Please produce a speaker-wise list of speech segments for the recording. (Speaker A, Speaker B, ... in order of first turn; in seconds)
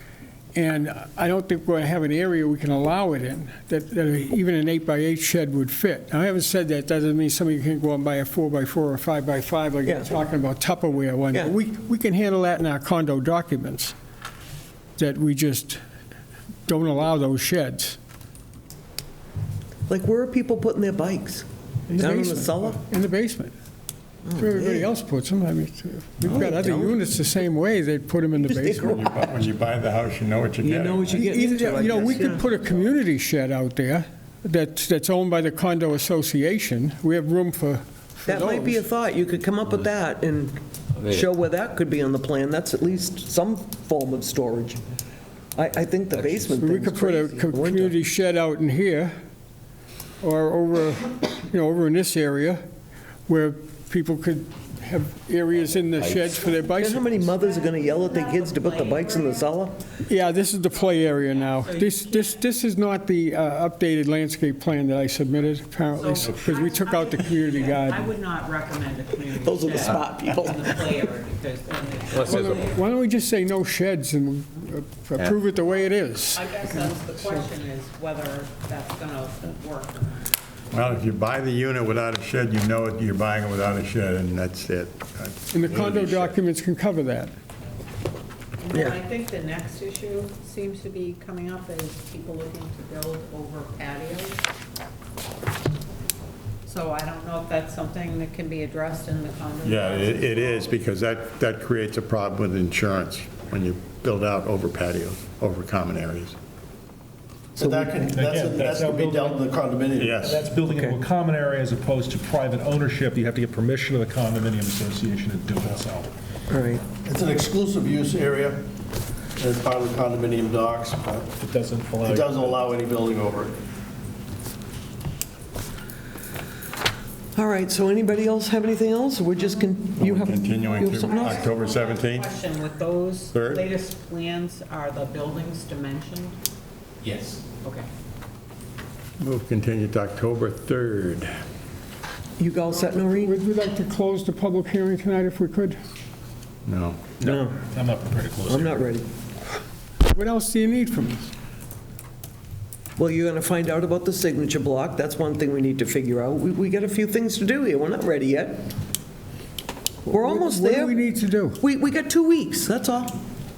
Speaker A: 0.5-13.9, 15.0-15.8, 16.7-18.0, 21.9-23.6, 24.4-29.0, 31.1-38.8, 46.6-49.1, 50.2-52.6, 53.3-57.3, 60.1-68.1, 72.2-76.8, 85.5-87.3, 142.8-145.8, 150.1-151.3, 160.1-161.6
Speaker B: 19.9-22.8, 24.2-24.9, 26.2-27.0, 28.4-29.3, 30.6-32.5, 38.3-44.8, 45.5-48.0, 56.7-59.8, 69.4-70.8, 107.6-108.0, 110.7-111.0, 116.5-116.8, 127.4-131.4, 142.4-143.3, 147.2-147.6, 148.5-149.1, 153.0-158.7, 160.1-161.1, 161.6-163.2
Speaker C: 28.7-31.3, 80.7-86.4, 99.6-106.3, 110.0-110.4, 130.0-132.3, 133.3-133.7, 139.2-141.4, 146.7-147.0
Speaker D: 57.2-59.5, 61.0-62.4, 66.0-72.8, 76.3-80.1, 88.6-94.4, 96.7-100.7, 130.9-136.4, 137.6-137.9
Speaker E: 107.6-110.2, 117.1-118.6, 119.4-121.2, 122.0-123.5
Speaker F: 108.0-116.1, 121.4-122.7, 147.2-148.8